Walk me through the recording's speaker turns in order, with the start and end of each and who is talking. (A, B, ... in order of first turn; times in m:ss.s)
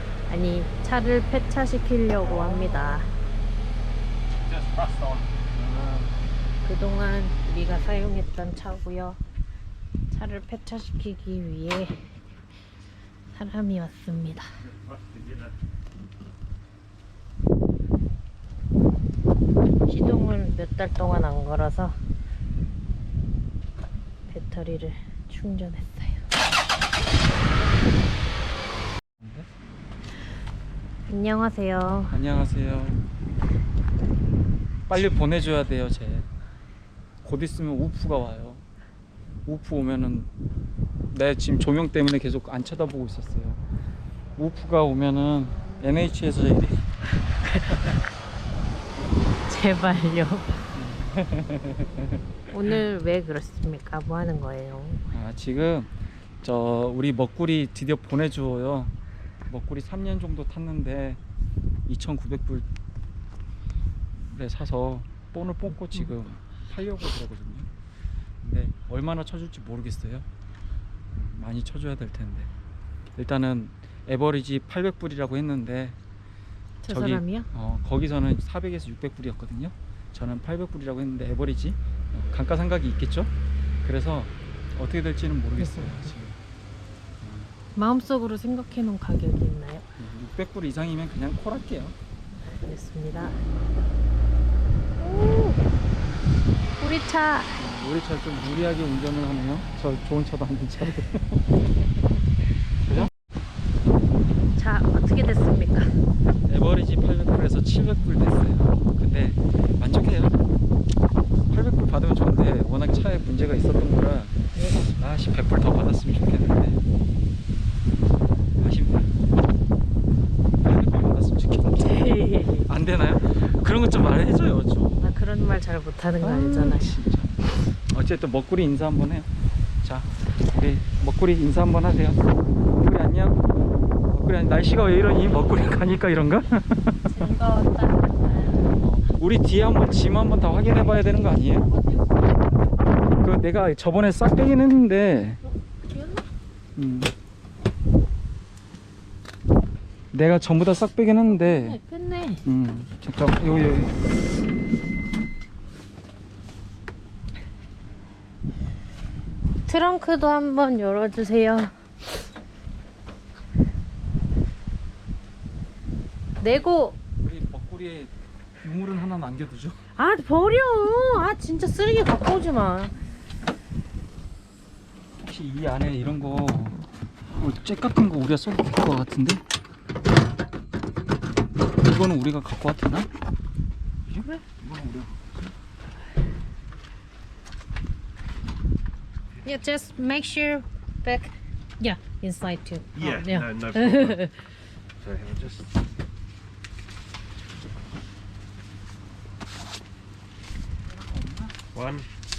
0:00.3-0:03.1 A
0:02.2-0:03.0 B
0:04.4-0:05.3 B
0:05.6-0:06.1 C
0:06.6-0:09.2 A
0:10.1-0:12.2 A
0:13.3-0:14.4 A
0:14.6-0:15.5 B
0:19.8-0:22.0 A
0:24.3-0:26.2 A
0:29.2-0:29.5 C
0:31.1-0:32.2 A
0:32.0-0:33.0 C
0:34.9-0:36.3 C
0:37.2-0:38.6 C
0:39.4-0:40.3 C
0:41.1-0:43.6 C
0:44.4-0:46.8 C
0:47.4-0:47.9 A
0:49.3-0:50.6 A
0:50.7-0:52.0 C
0:52.5-0:55.0 A
0:55.1-0:58.9 C
0:59.5-1:01.2 C
1:01.9-1:02.6 C
1:04.1-1:07.7 C
1:08.4-1:10.2 C
1:11.1-1:12.5 C
1:13.2-1:16.0 C
1:16.8-1:17.5 A
1:16.9-1:23.3 C
1:23.8-1:26.4 C
1:27.2-1:27.5 C
1:27.7-1:29.8 A
1:30.0-1:31.9 C
1:32.6-1:33.4 A
1:35.0-1:35.6 A
1:36.8-1:37.6 A
1:37.6-1:41.4 C
1:44.6-1:46.0 A
1:46.4-1:50.4 C
1:51.5-1:56.8 C
1:58.6-1:59.2 C
2:00.6-2:02.1 C
2:01.8-2:02.7 A
2:02.7-2:05.2 C
2:05.0-2:06.9 A
2:06.2-2:09.3 C
2:09.8-2:13.4 C
2:14.1-2:17.2 C
2:17.1-2:18.7 A
2:18.8-2:21.7 C
2:21.7-2:22.0 A
2:23.2-2:25.4 C
2:25.9-2:26.2 A
2:26.8-2:27.1 C
2:30.1-2:31.8 C
2:31.3-2:32.4 A
2:32.4-2:34.0 C
2:39.6-2:41.7 A
2:46.4-2:47.0 A
2:47.2-2:48.1 C
2:48.6-2:49.8 C
2:50.0-2:52.9 A
2:55.2-2:56.8 C
2:57.4-2:59.4 C
3:01.7-3:03.1 C
3:04.0-3:05.5 C
3:09.4-3:14.4 A
3:12.9-3:14.2 B
3:15.0-3:15.7 B
3:20.9-3:21.5 C
3:21.7-3:22.1 B